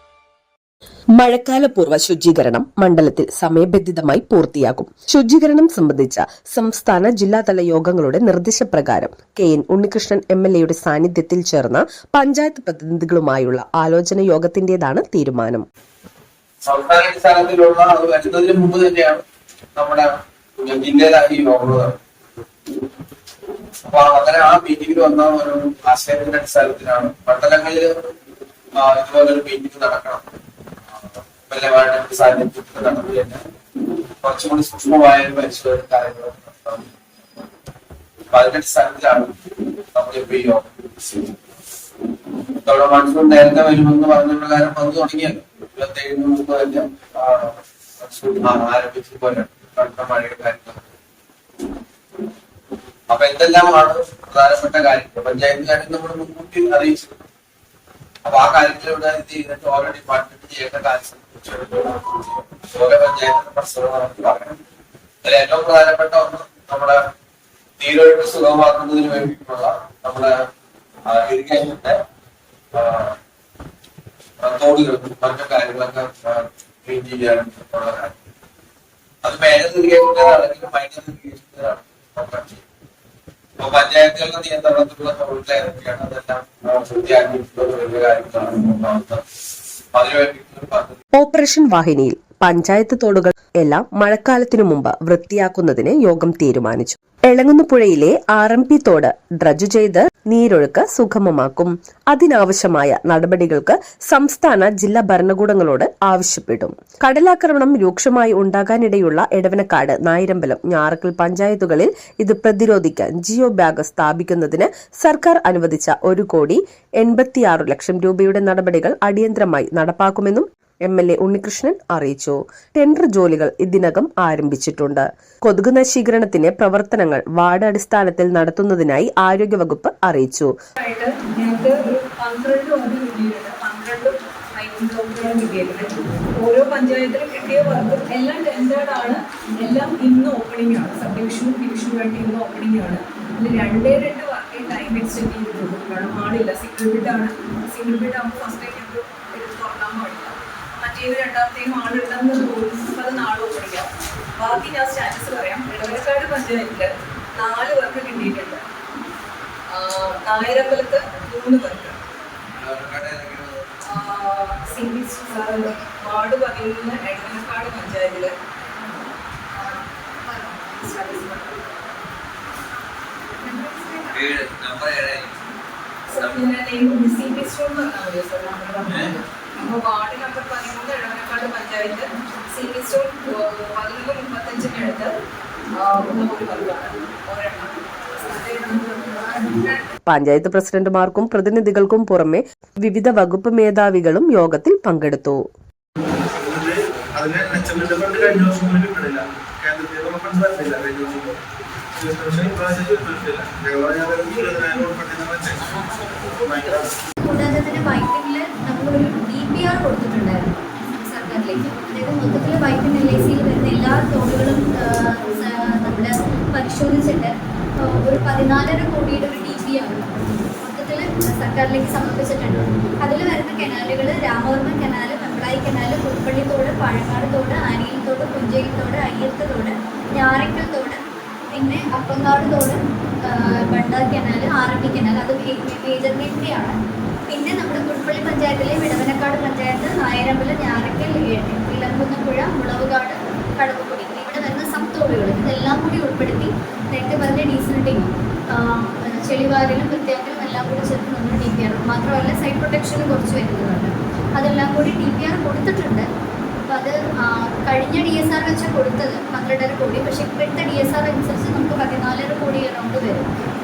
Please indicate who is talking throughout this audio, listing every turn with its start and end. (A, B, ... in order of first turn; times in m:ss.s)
0:01.2-0:15.6 A
0:16.7-0:19.2 B
0:19.8-0:21.9 B
0:23.9-0:28.1 B
0:28.8-0:30.2 B
0:30.9-0:33.4 B
0:34.2-0:36.9 B
0:38.3-0:41.4 B
0:42.6-0:50.8 B
0:53.1-0:57.1 B
0:58.2-1:04.6 B
1:05.2-1:07.0 B
1:07.8-1:10.3 B
1:11.1-1:12.0 B
1:12.7-1:13.2 B
1:14.4-1:18.2 B
1:19.2-1:22.6 B
1:23.6-1:29.2 B
1:29.9-1:31.0 B
1:31.1-2:10.5 A
2:10.8-2:38.6 C
2:39.7-2:42.0 C
2:42.6-2:43.6 B
2:43.9-2:48.3 C
2:49.5-2:52.0 C
2:53.4-2:54.4 C
2:54.1-2:55.3 B
2:56.1-3:05.1 C
3:05.7-3:09.9 C
3:10.1-3:15.4 A
3:16.3-3:21.4 D
3:21.9-3:26.9 D
3:27.2-3:51.0 E
3:51.5-4:16.1 E
4:16.7-4:23.3 E